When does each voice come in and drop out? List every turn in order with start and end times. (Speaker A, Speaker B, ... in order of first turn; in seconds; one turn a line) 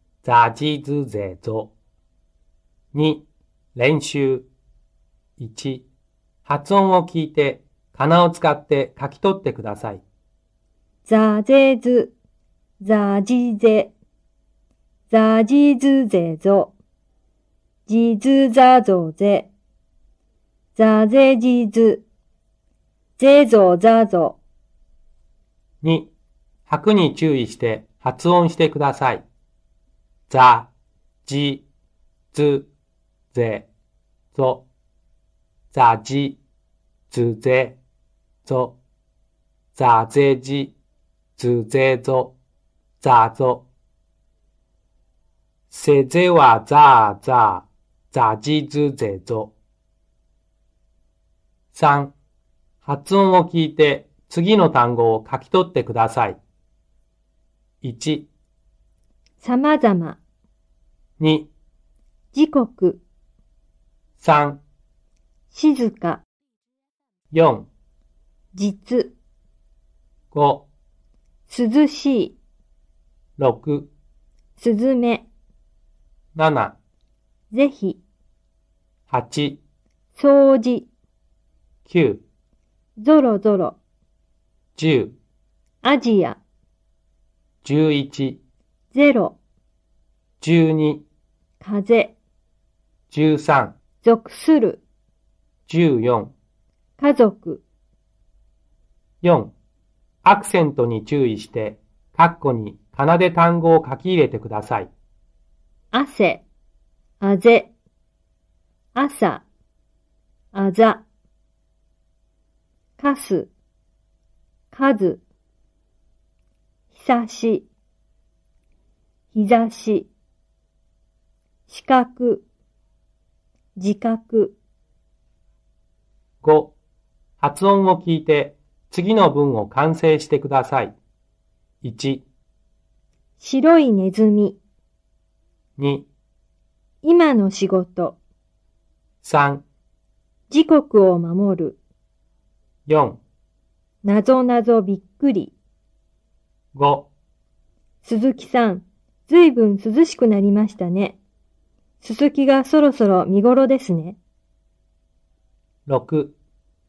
Speaker A: 0.2-1.7
Speaker A: 2.9-4.5
Speaker A: 5.4-5.9
Speaker A: 6.5-10.0
Speaker B: 11.1-12.1
Speaker B: 12.8-13.9
Speaker B: 15.1-16.7
Speaker B: 17.9-19.5
Speaker B: 20.8-22.0
Speaker B: 23.2-24.4
Speaker A: 25.8-26.1
Speaker A: 26.7-29.3
Speaker A: 30.3-30.7
Speaker A: 31.3-31.7
Speaker A: 32.3-32.7
Speaker A: 33.3-33.7
Speaker A: 34.3-34.7
Speaker A: 35.7-36.4
Speaker A: 37.1-37.8
Speaker A: 38.5-38.8
Speaker A: 39.8-40.8
Speaker A: 41.4-42.4
Speaker A: 43.0-43.7
Speaker A: 45.7-49.5
Speaker A: 51.7-52.1
Speaker A: 52.8-56.4
Speaker A: 57.8-58.3
Speaker B: 59.4-60.2
Speaker A: 61.2-61.5
Speaker B: 62.3-63.0
Speaker A: 64.2-64.6
Speaker B: 65.5-66.2
Speaker A: 67.3-67.7
Speaker B: 68.5-69.2
Speaker A: 70.3-70.7
Speaker B: 71.5-72.4
Speaker A: 73.4-73.9
Speaker B: 74.6-75.3
Speaker A: 76.3-76.8
Speaker B: 77.5-78.0
Speaker A: 79.1-79.6
Speaker B: 80.2-80.9
Speaker A: 81.9-82.2
Speaker B: 83.0-83.8
Speaker A: 84.8-85.2
Speaker B: 85.8-86.4
Speaker A: 87.6-88.4
Speaker B: 88.9-89.4
Speaker A: 90.4-91.0
Speaker B: 91.6-92.2
Speaker A: 93.1-93.8
Speaker B: 94.0-94.8
Speaker A: 95.7-96.3
Speaker B: 97.0-97.6
Speaker A: 99.2-99.5
Speaker A: 100.2-104.9
Speaker B: 105.9-106.4
Speaker B: 107.2-107.7
Speaker B: 109.0-109.4
Speaker B: 110.5-111.0
Speaker B: 113.0-113.5
Speaker B: 114.7-115.2
Speaker B: 116.9-117.7
Speaker B: 119.3-120.1
Speaker B: 121.7-122.5
Speaker B: 123.8-124.6
Speaker A: 126.4-126.8
Speaker A: 127.4-131.0
Speaker A: 131.8-132.3
Speaker B: 133.4-134.6
Speaker A: 135.8-136.1
Speaker B: 137.0-138.2
Speaker A: 139.2-139.7
Speaker B: 140.5-141.8
Speaker A: 142.9-143.2
Speaker B: 144.0-145.5
Speaker A: 146.8-147.1
Speaker B: 148.0-151.2
Speaker B: 152.0-154.2
Speaker A: 155.9-156.4